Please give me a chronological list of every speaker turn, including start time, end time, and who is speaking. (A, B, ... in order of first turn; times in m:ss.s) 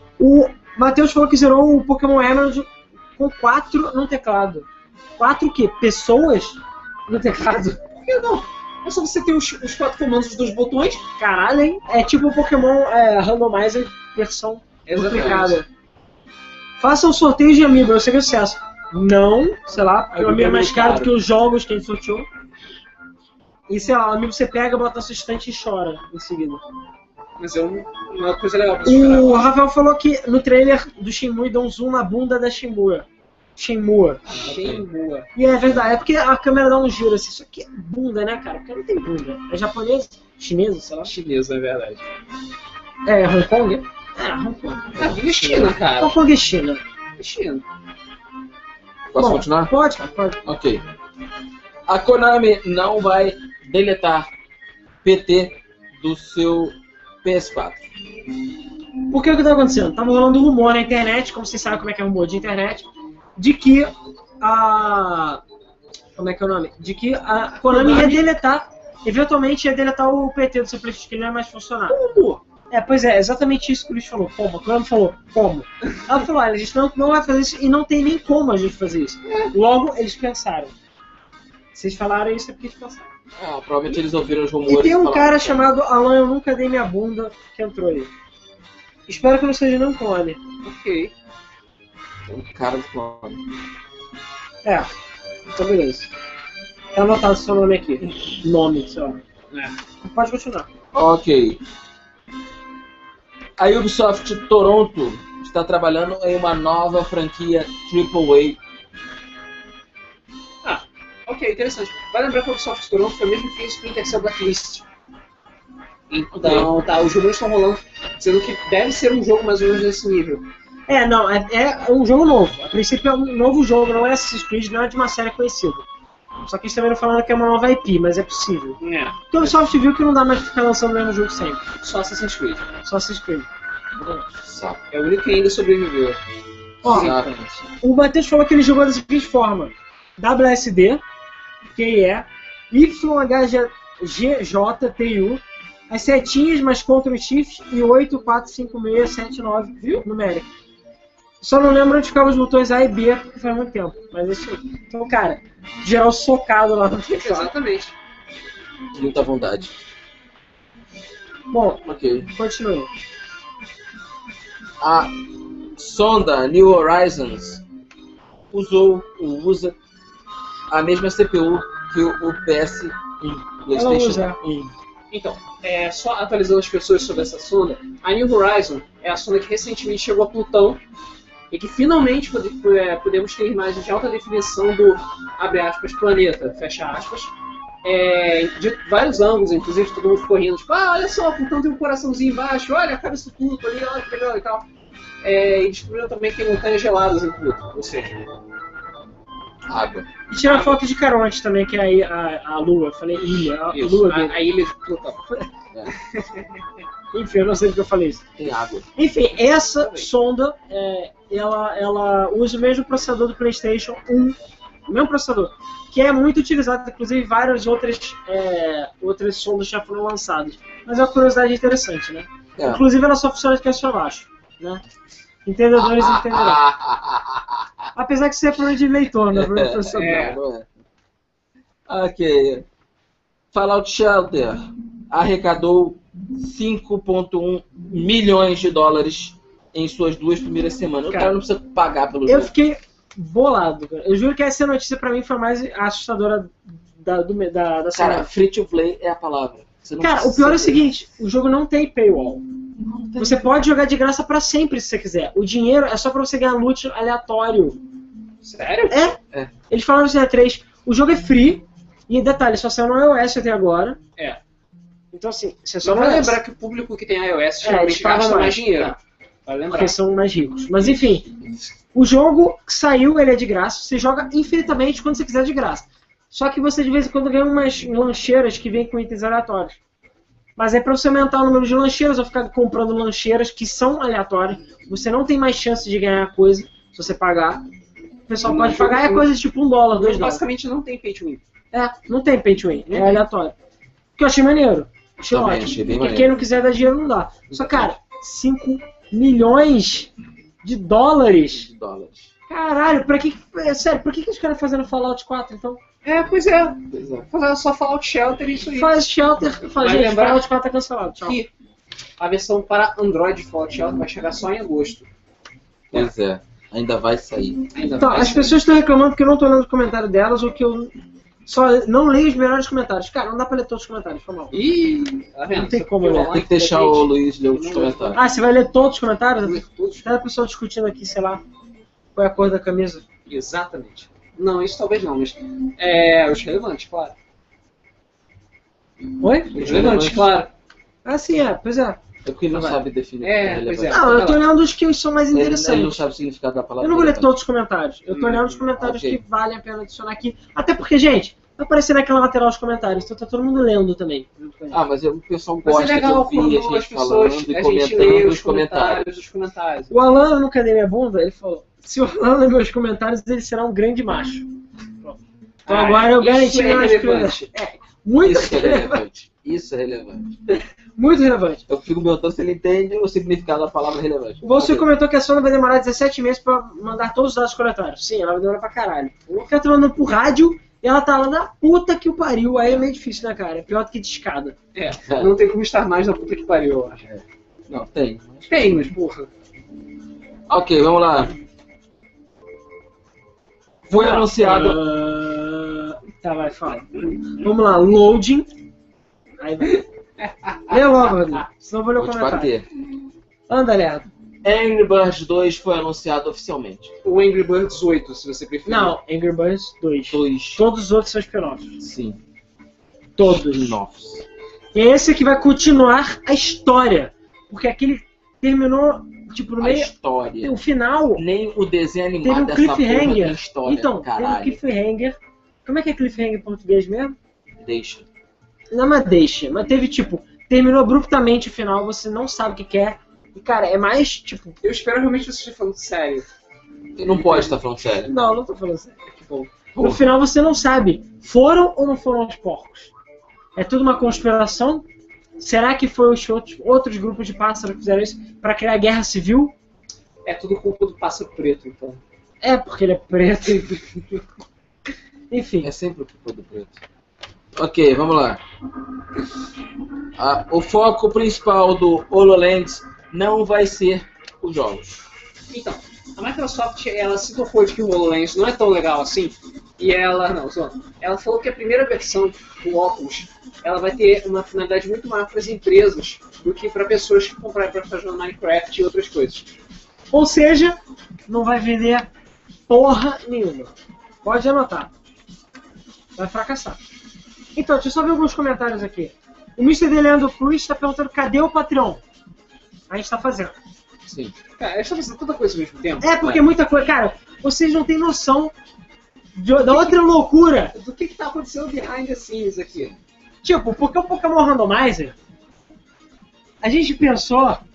0:00.2-0:04.7 A
0:05.2-0:07.8 A
0:07.8-0:11.0 B
0:11.2-0:15.7 A
0:14.9-0:15.6 B
0:15.1-0:15.4 C
0:16.8-0:22.3 A
0:20.1-0:21.2 C
0:23.7-0:26.6 A
0:27.4-0:29.5 B
0:28.8-0:34.3 A
0:34.3-0:35.3 B
0:34.4-0:34.9 C
0:35.4-0:41.1 A
0:41.0-0:42.0 B
0:43.1-0:44.9 A
0:45.0-0:45.8 C
0:45.0-0:46.1 B
0:46.0-0:46.8 A
0:47.2-0:47.6 B
0:49.1-0:49.7 C
0:49.2-0:50.4 A
0:50.5-0:50.8 C
0:51.9-0:54.3 C
0:55.0-0:57.8 C
0:59.1-1:05.4 A
1:06.2-1:12.0 A
1:07.6-1:08.2 B
1:11.9-1:12.4 B
1:12.7-1:20.7 A
1:19.3-1:19.5 B
1:21.8-1:23.1 A
1:23.4-1:25.7 C
1:24.7-1:28.1 A
1:29.1-1:30.4 A
1:30.6-1:31.1 B
1:32.3-1:33.4 C
1:34.6-1:34.9 A
1:35.5-1:36.1 A
1:36.9-1:39.2 A
1:40.0-1:40.7 A
1:40.9-1:41.6 C
1:43.6-1:48.6 C
1:50.6-1:54.8 B
1:56.1-2:00.5 B
1:56.4-1:56.7 C
2:00.9-2:05.8 A
2:06.5-2:08.8 A
2:08.8-2:09.5 B
2:09.3-2:11.6 A
2:11.8-2:12.6 B
2:12.8-2:13.5 A
2:14.3-2:14.8 C
2:14.9-2:16.2 B
2:16.8-2:17.6 C
2:16.8-2:17.1 A
2:16.8-2:17.4 B
2:17.8-2:21.0 A
2:21.8-2:30.5 A
2:29.8-2:30.1 B
2:31.4-2:37.5 A
2:37.0-2:38.0 B
2:39.0-2:39.7 C
2:41.5-2:42.9 A
2:41.9-2:42.3 C
2:44.8-2:45.2 C
2:45.8-2:47.6 C
2:48.5-2:49.8 C
2:50.7-2:53.0 C
2:53.2-2:54.7 A
2:53.6-2:54.4 C
2:55.1-3:00.8 B
3:01.5-3:07.3 B
3:07.8-3:14.6 B
3:15.2-3:18.2 B
3:19.7-3:20.1 C
3:20.3-3:24.4 A
3:20.4-3:20.8 B
3:23.7-3:25.2 B
3:26.0-3:26.5 B
3:27.1-3:28.3 A
3:28.4-3:28.9 C
3:29.0-3:44.8 A
3:29.6-3:30.1 B
3:42.6-3:42.8 C
3:45.5-3:46.6 A
3:45.8-3:47.7 C
3:48.0-3:50.4 A
3:49.3-3:50.7 C
3:50.0-3:50.4 B
3:51.9-3:52.7 C
3:53.5-4:02.5 C
4:01.1-4:01.4 A
4:02.3-4:08.3 A
4:07.9-4:10.8 C
4:10.0-4:12.4 A
4:12.8-4:13.5 C
4:13.2-4:17.8 A
4:18.4-4:19.0 B
4:18.9-4:19.2 A
4:19.7-4:24.0 A
4:25.1-4:26.4 A
4:25.8-4:30.0 B
4:27.6-4:28.9 A
4:29.7-4:31.3 A
4:31.9-4:39.8 A
4:40.6-4:47.6 A
4:48.3-4:50.4 A
4:48.4-4:49.3 B
4:50.0-4:51.4 B
4:51.7-4:53.6 A
4:52.9-4:53.3 B
4:54.2-5:00.1 A
4:55.3-4:56.4 C
4:57.5-4:57.9 B
5:00.6-5:01.7 A
5:01.5-5:02.3 C
5:02.5-5:05.8 A
5:06.0-5:08.9 B
5:06.9-5:07.3 C
5:08.7-5:11.4 A
5:09.7-5:10.5 B
5:11.2-5:11.5 B
5:12.2-5:15.1 B
5:15.9-5:17.7 C
5:17.8-5:18.6 B
5:18.0-5:20.9 A
5:21.5-5:24.6 A
5:24.5-5:28.2 B
5:25.5-5:26.4 A
5:26.1-5:28.2 C
5:28.2-5:31.4 A
5:29.4-5:30.0 B
5:32.2-5:33.0 A
5:33.3-5:37.2 B
5:39.2-5:39.9 A
5:39.5-5:40.3 C
5:39.5-5:40.5 B
5:41.0-5:42.0 A
5:42.2-5:44.0 C
5:42.5-5:44.4 B
5:43.9-5:46.0 A
5:45.3-5:47.3 C
5:46.8-5:54.8 A
5:48.1-5:48.6 B
5:48.8-5:49.2 C
5:54.7-5:59.2 C
5:55.6-5:59.9 B
5:59.9-6:04.4 A
6:05.0-6:09.0 A
6:05.7-6:07.5 B
6:08.2-6:10.3 C
6:11.0-6:11.6 A
6:11.7-6:14.9 C
6:14.4-6:24.6 A
6:24.7-6:27.0 B
6:25.1-6:25.3 C
6:27.0-6:28.5 C
6:28.5-6:29.3 B
6:30.5-6:31.3 C
6:33.9-6:34.8 C
6:33.9-6:38.5 A
6:39.4-6:39.8 A
6:39.7-6:41.4 B
6:40.7-6:42.5 A
6:42.0-6:42.7 C
6:43.5-6:44.1 A
6:44.4-6:46.9 C
6:47.0-6:49.0 B
6:48.7-6:51.8 A
6:50.1-6:50.6 C
6:51.8-6:52.2 C
6:53.2-6:53.8 A
6:53.2-6:54.2 C
6:54.7-6:59.9 A
6:59.6-7:00.6 C
7:00.4-7:01.2 A
7:01.2-7:04.6 C
7:02.2-7:07.2 A
7:07.6-7:08.1 C
7:08.7-7:14.6 A
7:14.6-7:16.3 B
7:17.0-7:18.1 C
7:18.1-7:19.0 A
7:19.1-7:19.7 B
7:19.8-7:20.0 C
7:19.8-7:22.9 A
7:23.6-7:24.8 A
7:25.4-7:29.5 A
7:30.2-7:32.0 B
7:32.4-7:34.0 A
7:35.3-7:35.7 A
7:35.6-7:36.8 C
7:37.6-7:38.4 C
7:40.2-7:45.1 C
7:45.5-7:59.5 B
8:00.1-8:02.1 A
8:02.7-8:03.7 A
8:04.2-8:04.9 A
8:06.2-8:06.8 A
8:07.6-8:12.0 A
8:12.9-8:13.6 A
8:14.1-8:14.4 C
8:14.6-8:16.4 B
8:16.0-8:18.5 A
8:19.4-8:20.7 A
8:19.6-8:20.0 B
8:20.7-8:23.0 B
8:23.4-8:25.2 A
8:26.6-8:27.6 A